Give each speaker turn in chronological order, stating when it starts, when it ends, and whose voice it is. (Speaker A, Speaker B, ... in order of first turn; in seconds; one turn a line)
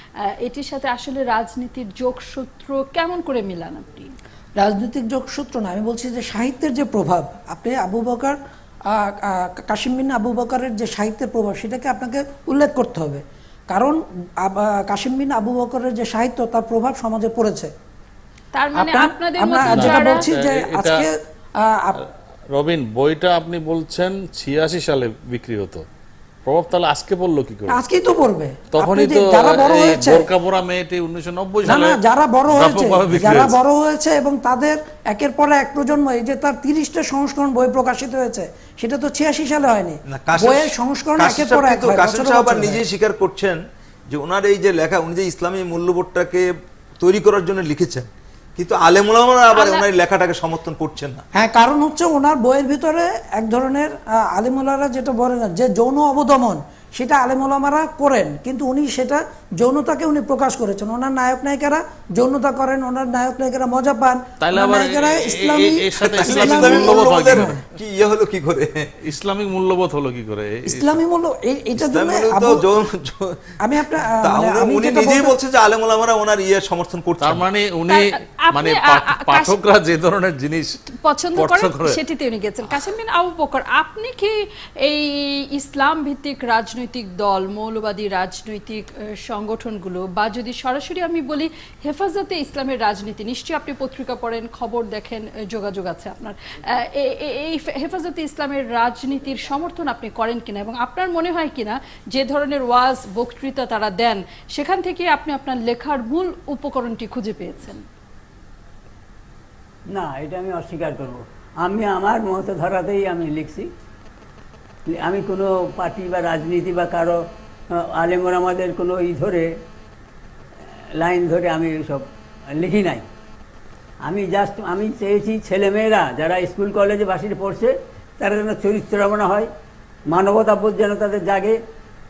Speaker A: 0.4-4.1
Speaker B: 4.6-8.4
Speaker B: 8.9-17.7
Speaker A: 18.5-20.3
Speaker B: 18.8-22.0
Speaker C: 19.7-21.0
Speaker C: 22.5-25.8
Speaker C: 26.4-27.8
Speaker B: 27.7-30.3
Speaker C: 28.7-33.6
Speaker B: 31.6-42.8
Speaker D: 40.1-46.5
Speaker D: 47.0-51.3
Speaker B: 51.4-67.6
Speaker C: 64.4-67.6
Speaker D: 66.0-68.9
Speaker C: 69.0-71.0
Speaker B: 70.7-72.6
Speaker D: 71.8-73.3
Speaker B: 73.6-75.3
Speaker D: 74.2-77.5
Speaker C: 77.2-80.8
Speaker A: 77.9-79.5
Speaker A: 80.9-107.8
Speaker C: 81.3-82.0
Speaker E: 109.9-113.7
Speaker E: 114.9-119.5
Speaker E: 120.7-123.0
Speaker E: 124.0-129.5
Speaker E: 130.1-131.6